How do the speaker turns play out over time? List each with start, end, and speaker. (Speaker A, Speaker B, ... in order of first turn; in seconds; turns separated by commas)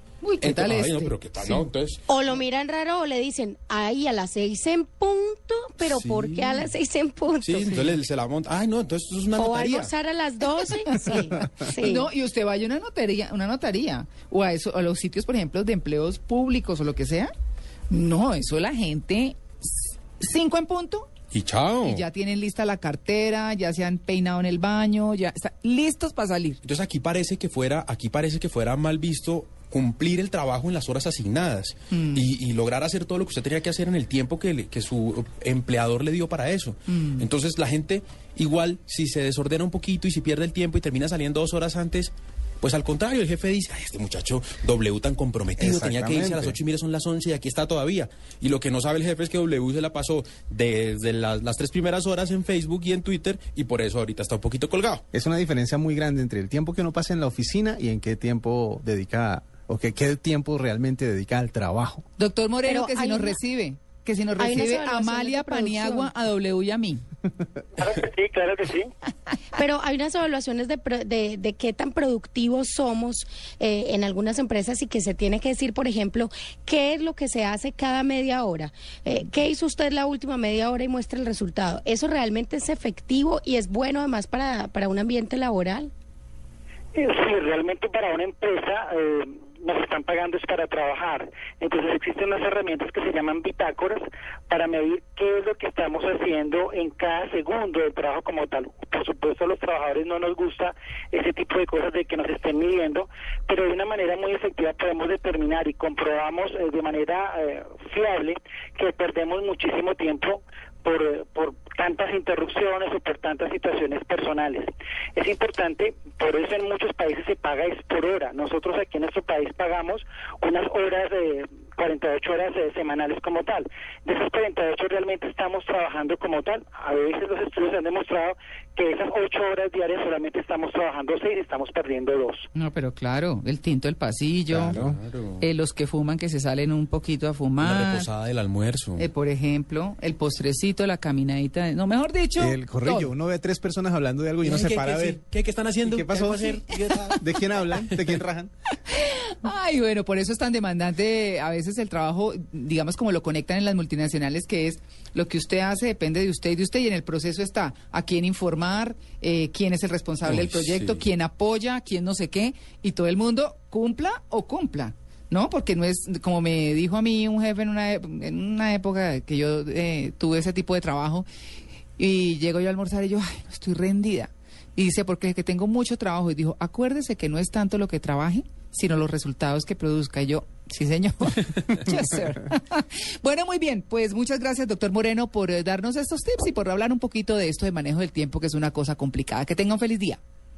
Speaker A: 0.2-1.5, Speaker B: 0.4-2.0, Speaker C: 2.1-7.9, Speaker B: 5.8-6.7, Speaker B: 7.4-9.9, Speaker C: 9.3-12.1, Speaker A: 11.8-17.3, Speaker A: 17.9-21.1, Speaker B: 21.3-22.0, Speaker A: 21.8-26.6, Speaker B: 26.6-55.0, Speaker A: 31.9-32.3, Speaker A: 36.9-37.2, Speaker D: 45.6-46.6, Speaker D: 55.1-62.0, Speaker A: 62.2-67.0, Speaker C: 62.6-63.4, Speaker C: 64.4-66.1, Speaker E: 67.8-68.9, Speaker C: 69.5-85.9, Speaker E: 86.9-132.5, Speaker A: 132.5-134.8, Speaker D: 134.5-135.0, Speaker B: 134.7-135.4, Speaker A: 135.4-138.1, Speaker B: 137.6-139.1, Speaker A: 139.0-143.1, Speaker D: 142.4-145.2, Speaker B: 144.4-148.1, Speaker D: 145.8-148.5, Speaker A: 148.9-171.2, Speaker B: 160.2-161.0, Speaker A: 172.0-190.2